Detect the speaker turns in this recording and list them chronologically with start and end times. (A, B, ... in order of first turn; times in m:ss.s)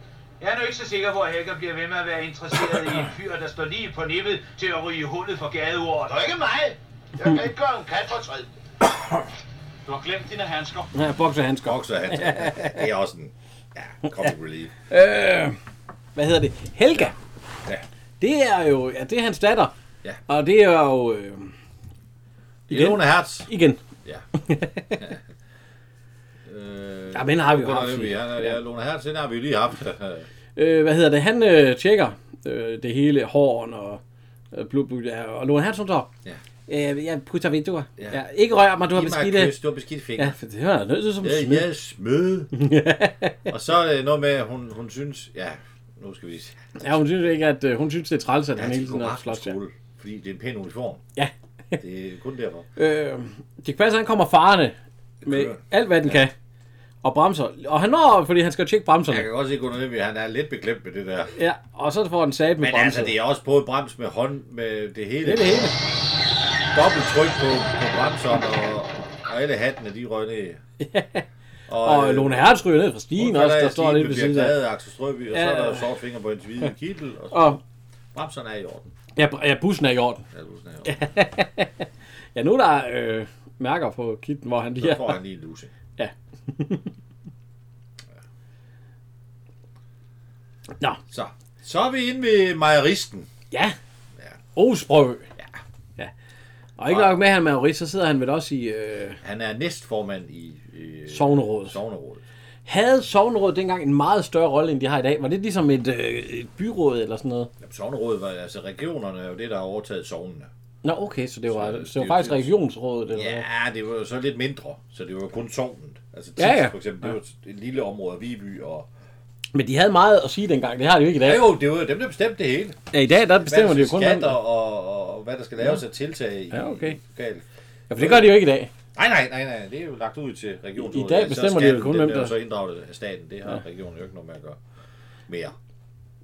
0:00.4-0:03.2 A
0:03.8-0:06.0 A
0:06.0-0:08.5 B
0:09.9-0:10.9 A
0:10.9-0:12.8 C
0:11.6-0:14.7 D
0:14.9-0:15.6 C
0:16.2-0:17.2 C
0:18.2-0:19.7 C
0:20.3-0:21.5 C
0:22.7-0:23.5 D
0:22.7-0:23.8 C
0:24.4-0:25.0 C
0:25.0-0:25.2 D
0:26.5-0:30.3 D
0:27.1-0:28.6 C
0:30.6-0:34.0 C
0:34.5-0:36.1 C
0:36.7-0:39.6 C
0:38.9-0:40.4 D
0:40.2-0:41.7 C
0:41.2-0:42.5 D
0:42.5-0:43.4 C
0:43.5-0:47.0 D
0:46.8-0:49.6 C
0:48.6-0:51.0 D
0:51.2-0:51.8 C
0:51.8-0:52.7 D
0:52.8-0:56.3 C
0:55.2-0:56.2 D
0:57.0-0:59.3 C
0:59.1-1:01.4 D
1:01.4-1:03.2 C
1:02.6-1:05.8 D
1:05.2-1:05.8 C
1:06.7-1:10.6 D
1:10.8-1:11.2 C
1:11.7-1:12.6 D
1:11.8-1:14.6 C
1:13.2-1:17.6 D
1:15.3-1:15.9 C
1:17.3-1:17.6 C
1:18.1-1:18.9 D
1:19.2-1:20.3 C
1:20.3-1:21.1 D
1:20.9-1:25.2 C
1:24.8-1:25.7 D
1:26.0-1:26.9 C
1:31.1-1:33.3 D
1:34.6-1:35.3 C
1:36.8-1:39.2 C
1:36.9-1:37.2 D
1:39.2-1:42.2 D
1:41.1-1:41.8 C
1:42.7-1:47.5 C
1:47.6-1:50.5 D
1:50.8-1:53.4 C
1:51.5-1:52.5 D
1:53.1-1:58.9 D
1:56.4-1:57.1 C
1:59.5-2:01.5 C
2:01.2-2:02.8 D
2:02.9-2:04.4 C
2:03.4-2:07.4 D
2:06.5-2:07.0 C
2:07.9-2:08.7 C
2:08.0-2:08.4 D
2:09.0-2:14.6 D
2:10.8-2:12.4 C
2:15.3-2:15.6 D